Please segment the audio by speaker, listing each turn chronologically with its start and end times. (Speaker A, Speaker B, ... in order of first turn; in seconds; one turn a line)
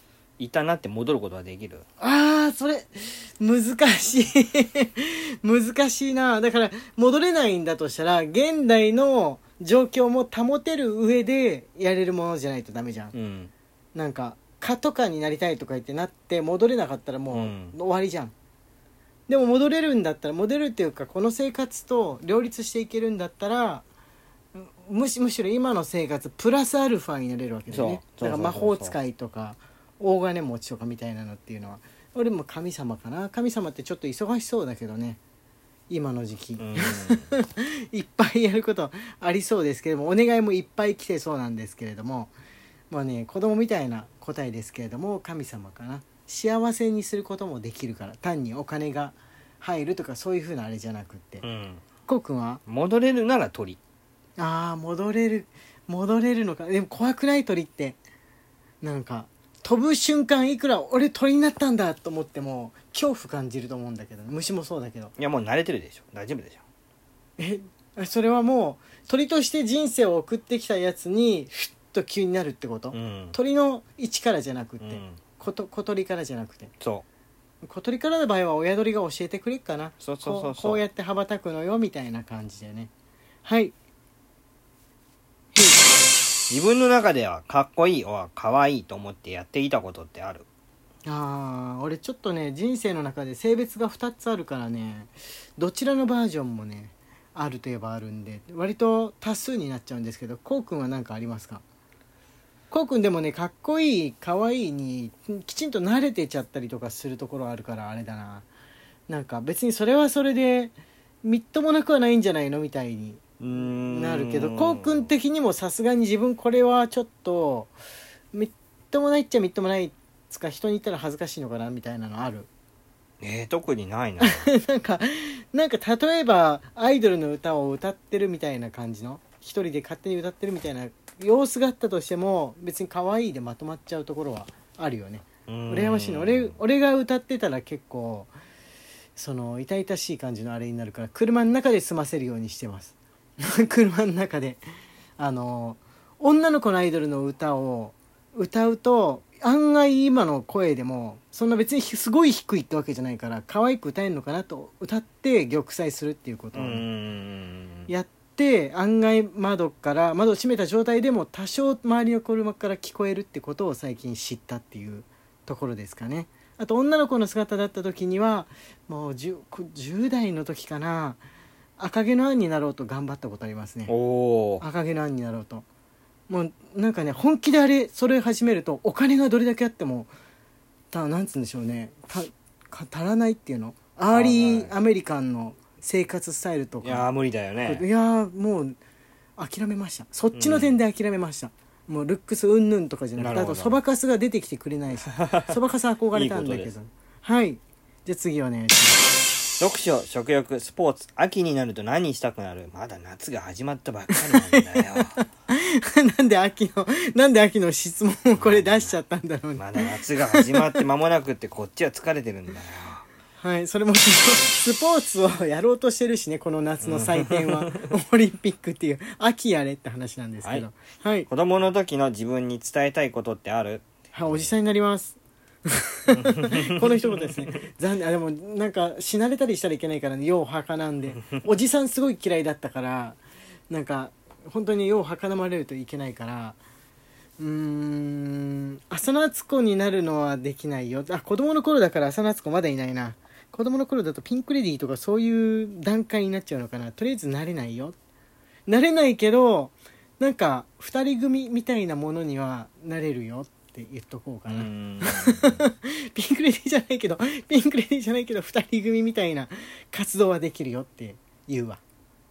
Speaker A: 0.4-1.8
Speaker B: 2.0-13.1
Speaker A: 13.1-13.5
Speaker B: 13.9-18.3
Speaker A: 17.3-17.7
Speaker B: 19.3-23.8
Speaker B: 24.5-35.2
Speaker A: 27.7-28.9
Speaker B: 35.9-42.3
Speaker A: 36.6-37.3
Speaker B: 42.9-51.5
Speaker A: 51.4-51.8
Speaker B: 52.1-52.6
Speaker A: 52.7-53.8
Speaker B: 54.4-58.0
Speaker B: 58.8-65.1
Speaker A: 65.2-66.6
Speaker B: 67.4-76.7
Speaker A: 72.9-73.3
Speaker A: 74.8-75.2
Speaker B: 77.6-82.9
Speaker A: 80.0-80.8
Speaker B: 83.5-83.8
Speaker B: 85.5-85.8
Speaker A: 86.5-90.5
Speaker B: 91.1-101.6
Speaker B: 102.7-108.5
Speaker B: 109.1-113.2
Speaker A: 113.4-115.1
Speaker B: 113.9-117.7
Speaker B: 118.3-122.5
Speaker A: 123.2-124.5
Speaker B: 124.2-138.3
Speaker A: 135.5-136.6
Speaker B: 139.2-144.6
Speaker B: 145.2-156.9
Speaker A: 156.5-157.9
Speaker B: 157.9-171.2
Speaker B: 171.8-173.9
Speaker A: 173.9-174.7
Speaker B: 174.6-175.7
Speaker B: 176.3-180.1
Speaker B: 180.9-187.1
Speaker A: 184.1-184.7
Speaker A: 186.8-187.8
Speaker B: 187.7-188.8
Speaker B: 189.4-199.1
Speaker A: 190.3-190.8
Speaker A: 193.2-193.8
Speaker A: 195.1-195.5
Speaker A: 196.1-196.7
Speaker A: 199.6-205.1
Speaker B: 204.1-210.8
Speaker A: 208.4-208.9
Speaker A: 209.6-213.0
Speaker B: 213.4-221.3
Speaker A: 216.8-217.7
Speaker A: 221.3-224.5
Speaker B: 224.1-233.2
Speaker A: 226.1-227.4
Speaker B: 233.7-236.6
Speaker B: 237.4-248.0
Speaker B: 248.7-261.8
Speaker A: 254.5-255.6